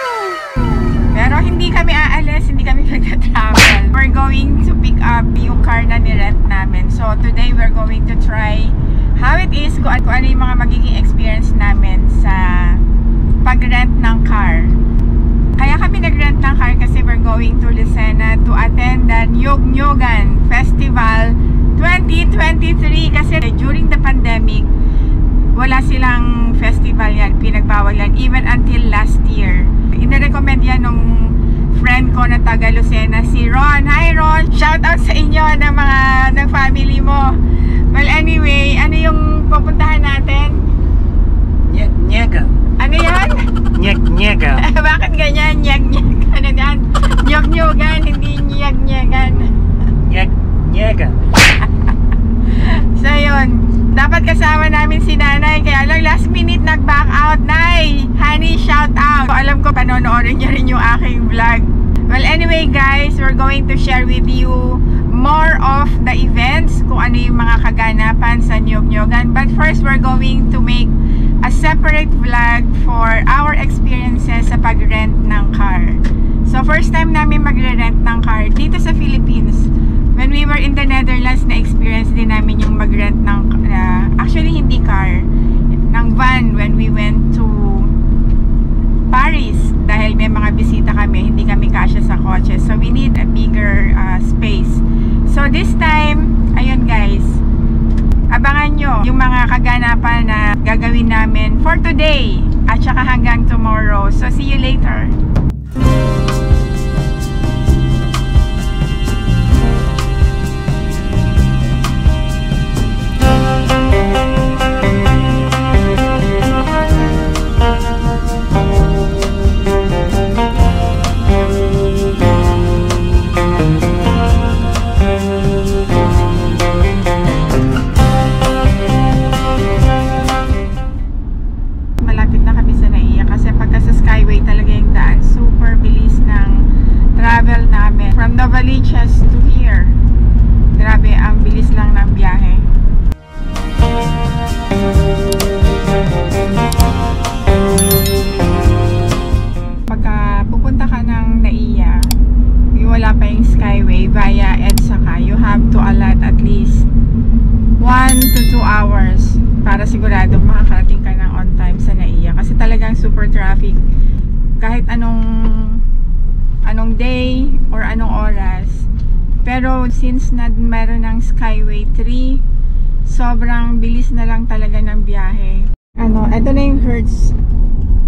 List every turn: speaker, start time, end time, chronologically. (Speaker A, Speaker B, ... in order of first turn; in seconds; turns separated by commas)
Speaker A: 0.9-12.8, Speaker A: 13.4-14.8, Speaker A: 15.6-24.7, Speaker A: 25.5-37.4, Speaker A: 37.9-40.7, Speaker B: 41.7-42.5, Speaker A: 42.8-43.4, Speaker B: 43.8-44.6, Speaker A: 44.6-49.5, Speaker B: 50.0-51.2, Speaker A: 52.5-85.3, Speaker A: 85.9-88.0, Speaker A: 89.1-97.4, Speaker A: 98.3-105.1, Speaker A: 132.0-136.6, Speaker A: 137.2-140.0, Speaker A: 140.8-142.6, Speaker A: 149.9-152.0, Speaker A: 152.8-156.9, Speaker A: 157.8-163.8, Speaker A: 164.6-165.8, Speaker A: 166.6-168.9, Speaker A: 169.4-172.4, Speaker A: 173.1-177.3